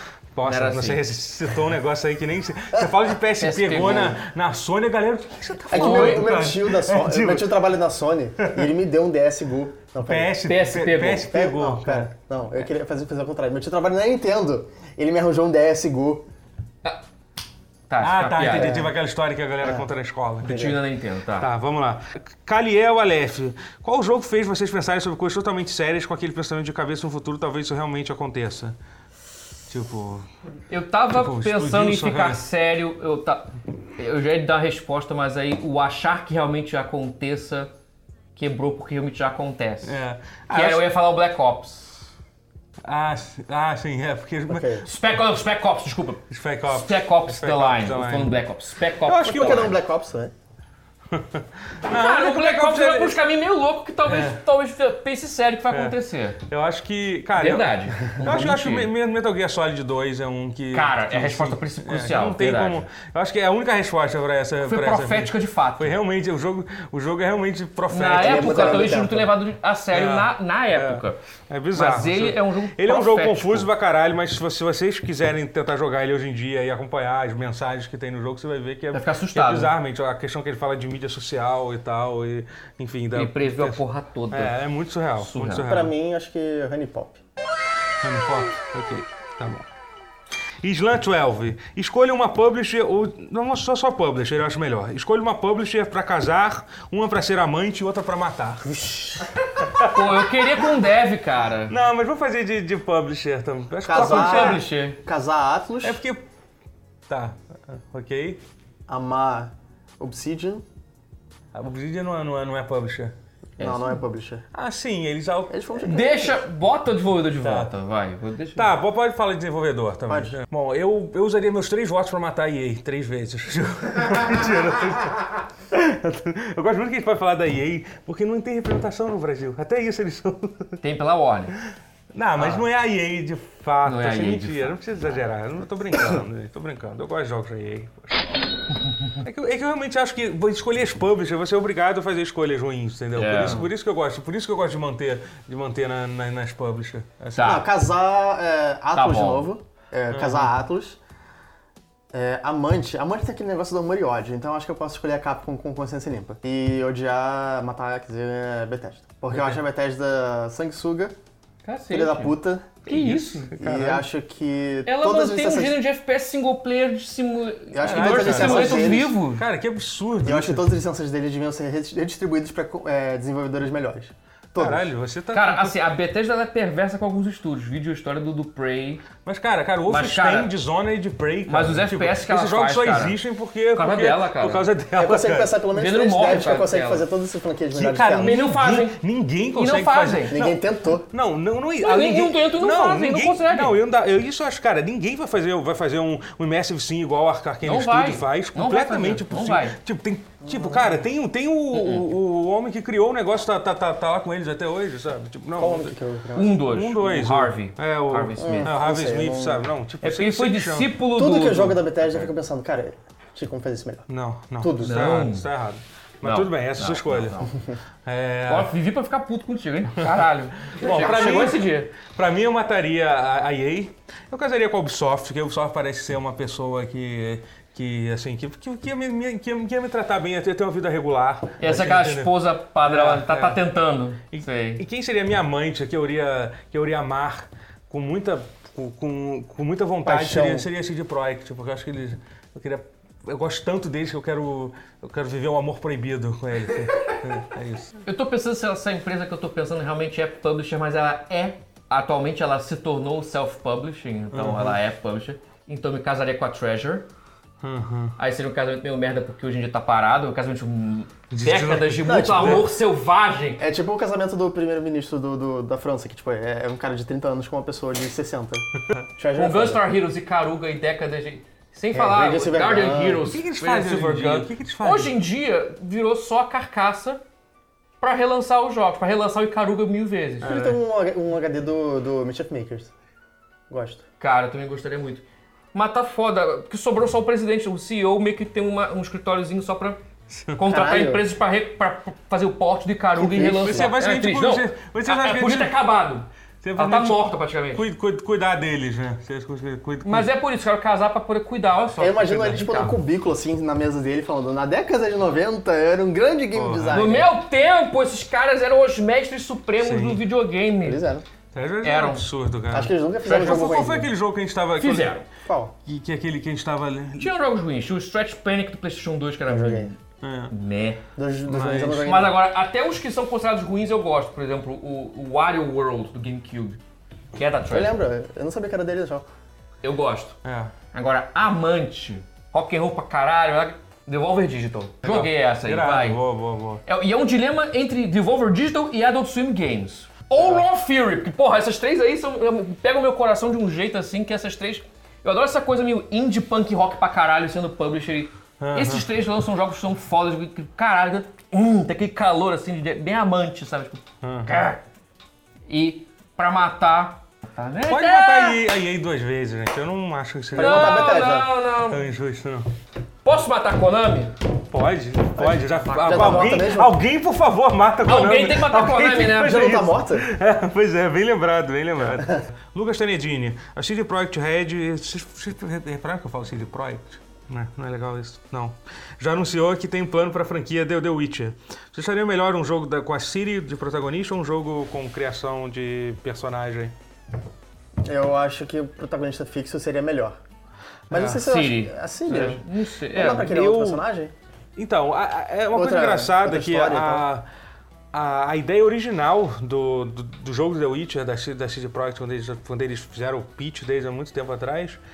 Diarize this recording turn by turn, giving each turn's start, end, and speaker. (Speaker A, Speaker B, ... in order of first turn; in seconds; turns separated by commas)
Speaker A: 0.3-7.5, Speaker B: 0.5-1.0, Speaker B: 3.4-4.2, Speaker C: 5.7-10.3, Speaker B: 5.7-6.3, Speaker A: 8.4-8.7, Speaker A: 10.0-12.1, Speaker B: 10.4-11.3, Speaker C: 11.2-16.3, Speaker B: 17.9-18.8, Speaker A: 18.0-20.6, Speaker C: 18.5-18.9, Speaker C: 19.6-19.9, Speaker B: 20.4-21.5, Speaker C: 20.4-20.8, Speaker A: 21.4-28.8, Speaker A: 29.7-30.2, Speaker B: 30.7-37.7, Speaker A: 31.1-32.4, Speaker B: 38.4-40.0, Speaker A: 39.8-40.9, Speaker B: 40.5-42.0, Speaker A: 42.8-44.7, Speaker C: 44.5-44.9, Speaker B: 44.9-49.7, Speaker A: 46.3-48.3, Speaker A: 49.0-49.7, Speaker C: 49.2-50.3, Speaker A: 51.1-53.2, Speaker B: 51.9-56.4, Speaker A: 54.0-54.4, Speaker A: 55.7-56.0, Speaker A: 56.5-69.0, Speaker B: 57.4-58.9, Speaker B: 60.7-62.8, Speaker B: 64.6-66.0, Speaker B: 67.9-71.2, Speaker C: 68.1-69.3, Speaker A: 69.9-85.9, Speaker B: 71.7-73.7, Speaker B: 78.9-79.7, Speaker B: 83.1-84.6, Speaker B: 85.2-85.7, Speaker C: 85.6-87.2, Speaker A: 88.0-89.7, Speaker A: 90.6-98.8, Speaker C: 98.8-99.2, Speaker A: 99.6-100.0, Speaker B: 99.8-101.7, Speaker A: 101.7-104.6, Speaker C: 103.8-106.0, Speaker B: 103.9-105.0, Speaker A: 105.8-106.2, Speaker A: 107.1-108.4, Speaker C: 108.9-110.6, Speaker A: 111.5-113.1, Speaker C: 113.6-114.5, Speaker B: 113.6-114.0, Speaker A: 114.5-115.6, Speaker C: 115.5-116.4, Speaker B: 115.8-118.7, Speaker A: 117.4-117.7, Speaker A: 118.5-130.8, Speaker C: 120.1-120.3, Speaker B: 130.8-131.5, Speaker A: 132.1-138.2, Speaker B: 132.4-132.6, Speaker B: 133.8-134.8, Speaker A: 139.2-147.6, Speaker B: 143.2-143.6, Speaker B: 147.3-147.7, Speaker C: 147.4-151.0, Speaker B: 148.9-149.5, Speaker A: 150.1-150.5, Speaker C: 152.1-161.1, Speaker B: 161.6-162.3, Speaker C: 161.9-162.8, Speaker B: 162.9-163.5, Speaker A: 162.9-164.0, Speaker C: 163.6-165.8, Speaker B: 164.8-169.4, Speaker C: 167.7-169.1, Speaker A: 167.8-170.7, Speaker C: 170.2-174.9, Speaker A: 174.5-175.8, Speaker B: 175.3-179.0, Speaker A: 179.2-185.5, Speaker B: 179.9-180.5, Speaker B: 181.5-183.2, Speaker B: 183.7-184.7, Speaker C: 184.9-188.4, Speaker B: 185.7-187.0, Speaker A: 187.7-205.9, Speaker B: 188.2-189.0, Speaker B: 189.5-190.4, Speaker C: 190.3-191.1, Speaker B: 191.8-193.8, Speaker B: 197.6-199.8, Speaker C: 200.4-200.8, Speaker B: 201.7-202.1, Speaker C: 205.6-206.6, Speaker B: 206.3-208.7, Speaker A: 206.7-210.9, Speaker C: 208.4-209.7, Speaker B: 210.0-211.9, Speaker C: 211.1-214.1, Speaker A: 214.1-217.5, Speaker C: 214.6-215.2, Speaker B: 214.8-215.4, Speaker B: 216.2-217.5, Speaker A: 218.1-218.7, Speaker B: 218.5-221.9, Speaker A: 220.6-232.3, Speaker B: 231.6-234.8, Speaker A: 232.8-233.6, Speaker A: 234.3-247.9, Speaker C: 240.0-240.7, Speaker B: 248.0-257.1, Speaker A: 254.3-254.8, Speaker A: 257.6-258.1, Speaker B: 258.2-263.6, Speaker A: 261.3-262.7, Speaker C: 262.0-262.7, Speaker C: 263.6-269.8, Speaker B: 269.3-277.2, Speaker C: 271.9-273.2, Speaker A: 273.2-275.1, Speaker B: 278.0-280.5, Speaker A: 280.4-280.7, Speaker C: 280.4-282.9, Speaker C: 283.7-284.0, Speaker B: 284.2-290.0, Speaker B: 290.6-297.8, Speaker C: 290.6-291.2, Speaker C: 293.1-293.9, Speaker A: 293.6-295.7, Speaker A: 296.6-297.2, Speaker A: 297.7-300.3, Speaker B: 300.0-303.0, Speaker C: 302.0-307.3, Speaker A: 306.5-307.1, Speaker B: 306.9-311.0, Speaker A: 309.8-310.2, Speaker C: 310.8-311.2, Speaker A: 311.5-315.1, Speaker B: 311.8-312.2, Speaker C: 312.7-314.1, Speaker B: 313.3-313.6, Speaker B: 314.8-315.3, Speaker C: 315.4-315.7, Speaker A: 315.8-317.3, Speaker B: 317.2-320.0, Speaker C: 319.5-319.9, Speaker A: 320.2-320.5, Speaker B: 320.5-321.0, Speaker C: 321.1-322.4, Speaker A: 321.5-322.0, Speaker B: 321.9-326.8, Speaker B: 327.4-327.9, Speaker C: 327.7-329.2, Speaker B: 329.8-330.4, Speaker A: 330.4-330.7, Speaker B: 330.9-336.2, Speaker A: 335.0-336.8, Speaker B: 336.9-354.8, Speaker A: 348.6-349.1, Speaker A: 354.2-354.5, Speaker B: 355.7-358.6, Speaker A: 357.9-361.1, Speaker C: 360.5-361.5, Speaker B: 360.6-362.0, Speaker A: 361.8-362.7, Speaker B: 363.2-364.3, Speaker A: 364.7-386.9, Speaker C: 365.4-367.0, Speaker B: 365.9-366.8, Speaker B: 368.0-369.6, Speaker C: 369.4-370.3, Speaker C: 372.1-372.3, Speaker C: 388.0-390.4, Speaker A: 391.1-391.4, Speaker C: 391.1-394.3, Speaker B: 391.3-393.5, Speaker A: 393.3-394.0, Speaker A: 394.8-397.4, Speaker C: 395.7-397.2, Speaker A: 398.1-405.0